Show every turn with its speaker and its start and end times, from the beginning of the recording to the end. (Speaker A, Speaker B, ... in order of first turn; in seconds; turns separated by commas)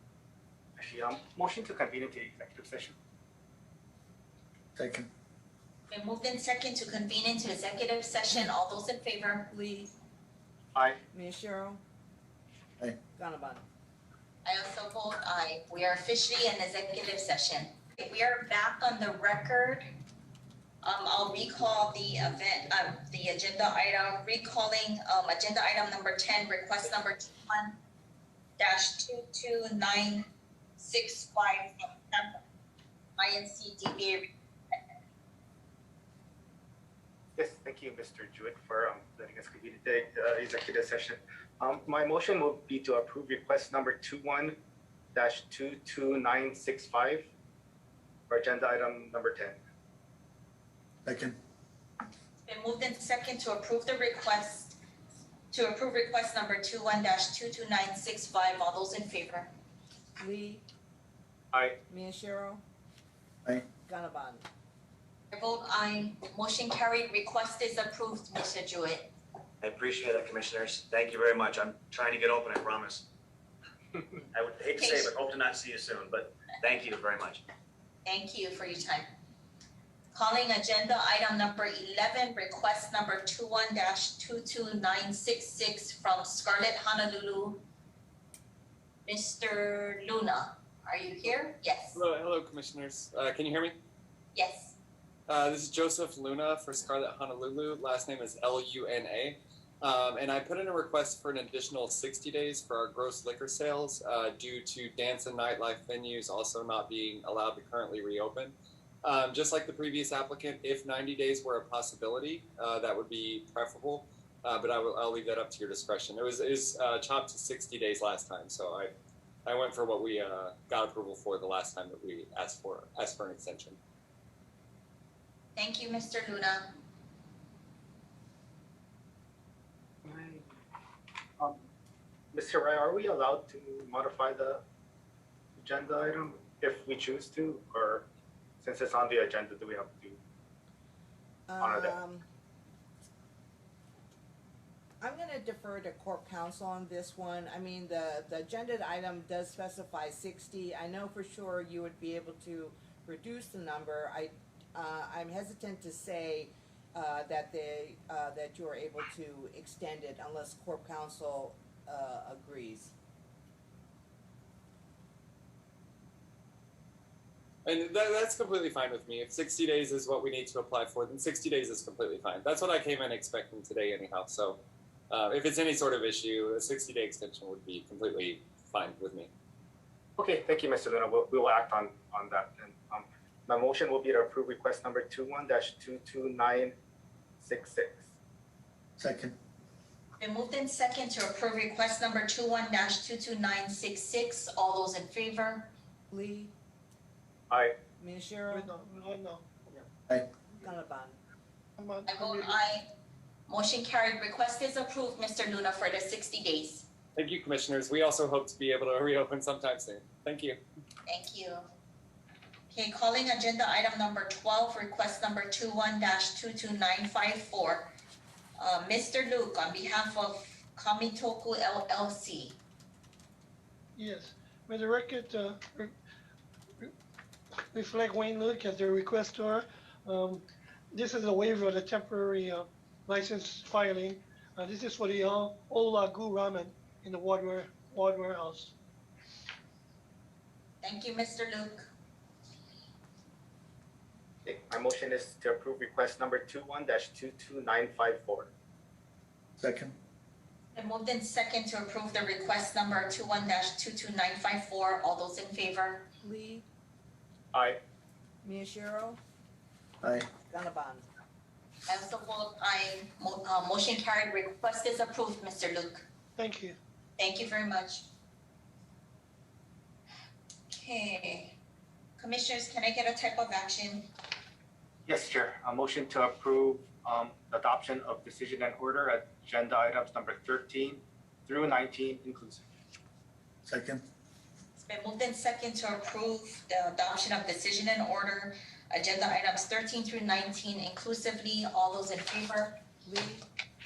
Speaker A: 0.8-3.0, Speaker B: 4.8-5.1, Speaker C: 5.9-9.5, Speaker D: 9.5-9.9, Speaker D: 11.1-11.8, Speaker D: 13.1-13.6, Speaker C: 14.4-19.9, Speaker C: 20.8-27.8, Speaker C: 28.6-30.2, Speaker C: 30.8-32.4, Speaker C: 33.2-34.3, Speaker A: 37.4-44.5, Speaker A: 45.1-47.3, Speaker A: 48.3-49.6, Speaker B: 51.0-51.4, Speaker C: 52.4-54.8, Speaker C: 55.5-59.5, Speaker D: 60.2-60.6, Speaker A: 61.5-61.8, Speaker D: 61.9-62.6, Speaker D: 63.8-64.5, Speaker C: 65.3-69.1, Speaker E: 69.6-73.0, Speaker E: 74.3-77.4, Speaker C: 74.8-75.1, Speaker C: 78.0-79.1, Speaker C: 80.1-87.6, Speaker C: 89.0-92.0, Speaker F: 91.9-93.8, Speaker C: 94.3-94.8, Speaker F: 95.3-118.9, Speaker F: 119.4-123.8, Speaker C: 125.5-126.7, Speaker A: 130.1-130.4, Speaker A: 132.3-134.6, Speaker A: 135.6-138.1, Speaker A: 138.6-140.2, Speaker D: 141.5-142.2, Speaker A: 141.6-141.9, Speaker D: 145.0-162.9, Speaker F: 167.6-174.6, Speaker F: 175.1-179.3, Speaker A: 180.2-186.7, Speaker A: 187.4-188.0, Speaker B: 189.0-189.3, Speaker C: 190.2-195.7, Speaker D: 196.1-196.5, Speaker A: 197.5-197.8, Speaker D: 198.0-198.7, Speaker G: 198.5-199.8, Speaker D: 200.5-201.2, Speaker G: 201.8-202.6, Speaker C: 202.1-202.9, Speaker C: 203.5-206.9, Speaker F: 207.2-210.6, Speaker C: 211.1-211.6, Speaker C: 212.7-217.9, Speaker C: 218.6-222.6, Speaker G: 223.9-225.9, Speaker G: 227.7-238.7, Speaker C: 240.8-241.9, Speaker A: 244.4-248.5, Speaker B: 249.6-249.9, Speaker C: 250.7-256.1, Speaker D: 256.2-256.6, Speaker A: 257.5-257.8, Speaker D: 258.4-259.2, Speaker B: 260.0-260.3, Speaker D: 260.5-261.0, Speaker C: 261.9-266.1, Speaker G: 266.4-266.8, Speaker C: 267.2-268.1, Speaker C: 270.7-271.6, Speaker C: 272.2-274.1, Speaker A: 275.1-282.6, Speaker B: 283.6-284.0, Speaker C: 284.7-292.8, Speaker D: 293.1-293.5